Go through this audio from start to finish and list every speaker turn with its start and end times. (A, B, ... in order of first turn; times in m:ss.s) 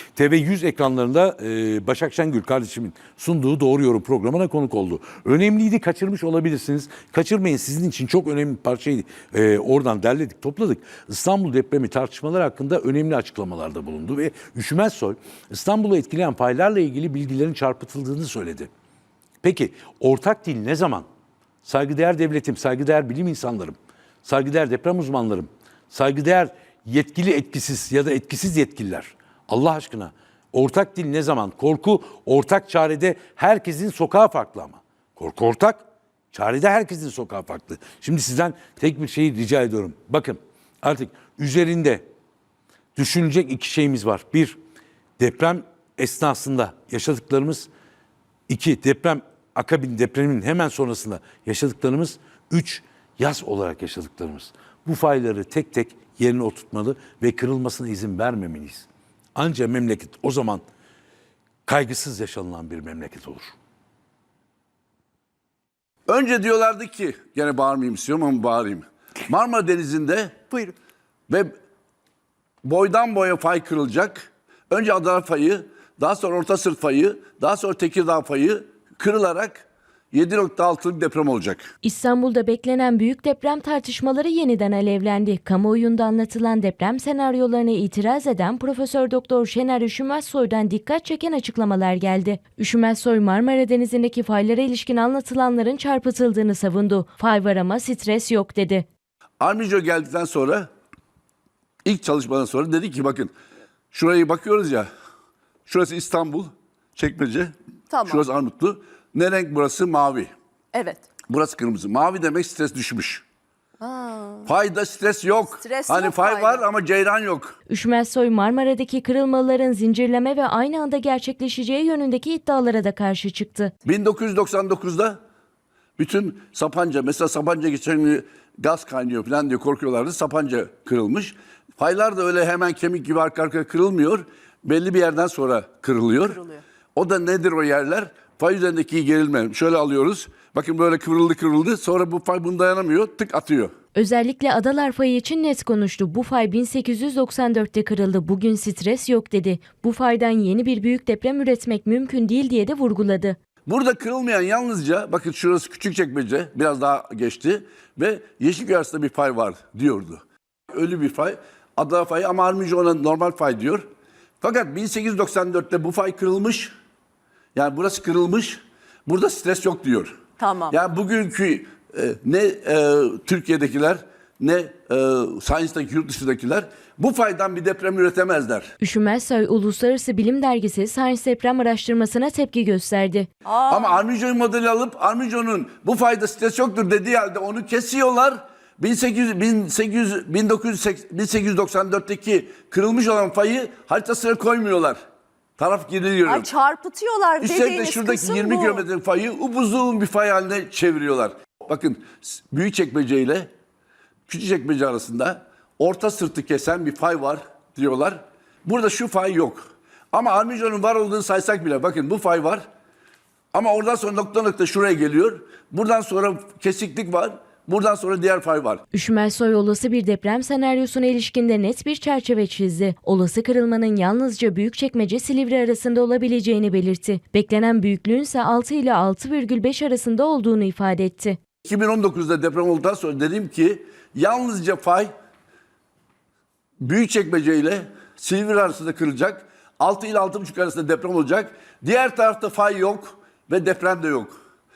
0:00.2-0:18.7 A
0:19.4-0:21.0 A
0:21.6-0:42.0 A
0:43.0-0:44.6 A
0:45.2-0:47.7 A
0:48.5-1:00.6 A
1:01.6-1:03.5 A
1:06.1-1:10.7 B
1:12.6-1:21.7 B
1:21.8-1:38.8 C
1:39.4-1:40.7 B
1:41.8-1:43.3 B
1:43.9-1:44.9 B
1:45.6-1:47.5 B
1:47.9-1:48.2 D
1:48.0-1:50.3 B
1:50.7-1:51.1 D
1:51.2-1:53.2 B
1:53.8-1:54.5 D
1:54.4-1:57.6 B
1:55.6-1:56.6 D
1:57.7-2:03.7 C
2:03.8-2:05.2 B
2:06.0-2:16.4 B
2:16.9-2:23.7 B
2:23.9-2:33.4 C
2:33.6-2:43.8 B
2:44.4-2:46.7 B
2:47.5-2:58.7 B
2:50.4-2:50.7 D
2:58.8-3:03.3 C
3:03.6-3:15.0 B
3:15.6-3:16.5 B
3:16.2-3:18.8 D
3:17.4-3:23.5 B
3:24.3-3:32.6 B
3:33.5-3:38.8 B
3:38.9-3:51.4 C
3:51.6-3:55.1 B
3:56.8-4:04.4 B